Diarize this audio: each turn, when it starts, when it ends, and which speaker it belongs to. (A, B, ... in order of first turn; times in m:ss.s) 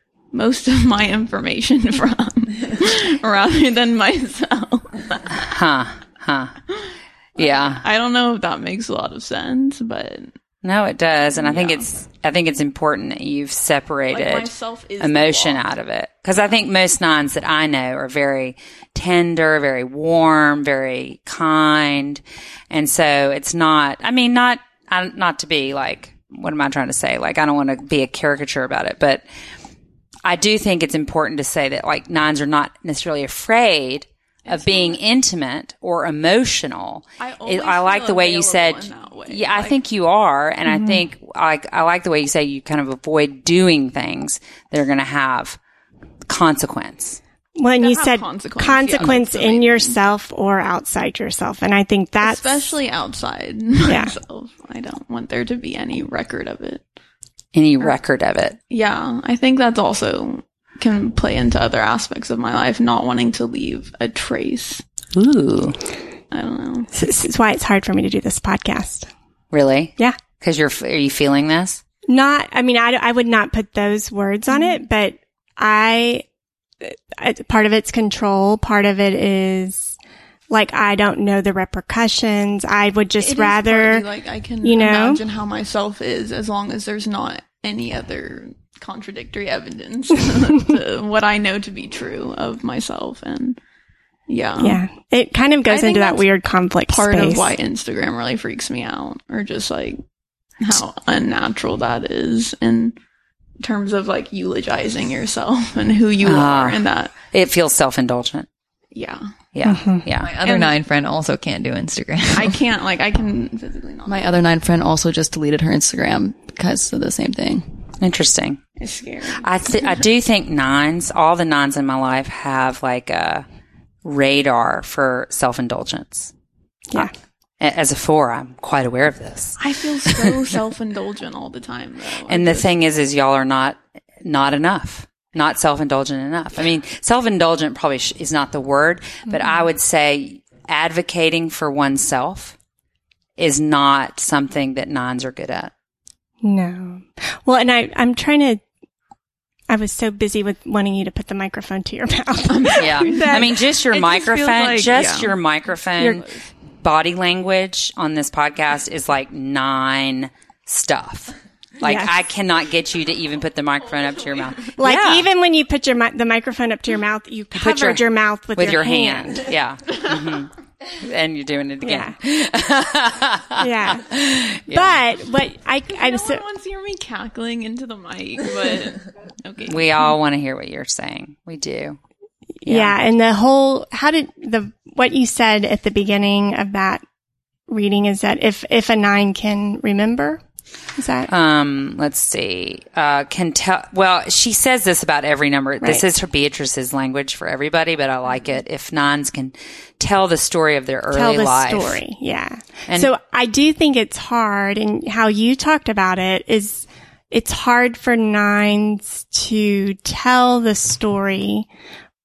0:00.3-0:05.4 A
0:05.4-0:06.5 B
0:07.4-0:07.8 B
0:07.4-0:10.3 A
0:10.6-0:29.2 B
0:11.4-0:11.9 A
0:14.1-0:15.6 A
0:30.3-0:45.6 B
0:34.5-0:35.0 A
0:37.2-0:39.8 A
0:40.7-0:41.0 C
0:46.3-0:47.2 B
0:47.6-0:52.8 C
0:47.8-0:50.0 A
0:52.2-0:56.8 A
0:53.9-0:54.2 C
0:57.5-0:58.6 B
0:58.7-1:04.8 A
1:05.2-1:05.8 B
1:06.3-1:06.9 A
1:07.0-1:09.1 C
1:09.5-1:11.8 B
1:12.1-1:16.2 C
1:16.8-1:20.0 C
1:20.5-1:24.0 C
1:23.2-1:33.6 A
1:24.6-1:25.2 C
1:34.3-1:34.8 A
1:34.6-1:37.5 C
1:35.7-1:36.3 A
1:36.9-1:40.0 A
1:40.6-1:43.0 A
1:43.6-1:47.2 A
1:46.2-1:48.5 B
1:48.9-1:49.3 A
1:49.5-1:50.3 B
1:49.7-1:50.0 C
1:50.2-1:52.6 D
1:50.4-1:50.8 A
1:52.3-1:54.3 A
1:54.1-1:57.6 E
1:58.0-1:58.6 B
1:58.8-1:59.5 A
1:59.4-2:03.5 B
2:04.0-2:06.3 B
2:07.0-2:10.3 B
2:09.6-2:12.7 A
2:12.3-2:22.6 B
2:23.4-2:25.7 B
2:26.4-2:28.6 C
2:29.7-2:33.4 C
2:32.5-2:35.4 A
2:32.7-2:45.3 B
2:36.0-2:36.3 C
2:41.8-2:42.2 C
2:44.8-2:49.5 C
2:47.6-2:48.0 B
2:48.6-2:55.0 B
2:51.8-2:52.2 C
2:53.6-2:54.0 C
2:54.7-2:56.4 C
2:55.9-3:00.1 A
2:59.7-3:02.0 B
3:02.6-3:07.0 C
3:02.6-3:03.0 B
3:07.7-3:10.4 C
3:11.0-3:11.3 C
3:11.3-3:22.0 B
3:21.1-3:31.7 C
3:22.9-3:23.1 B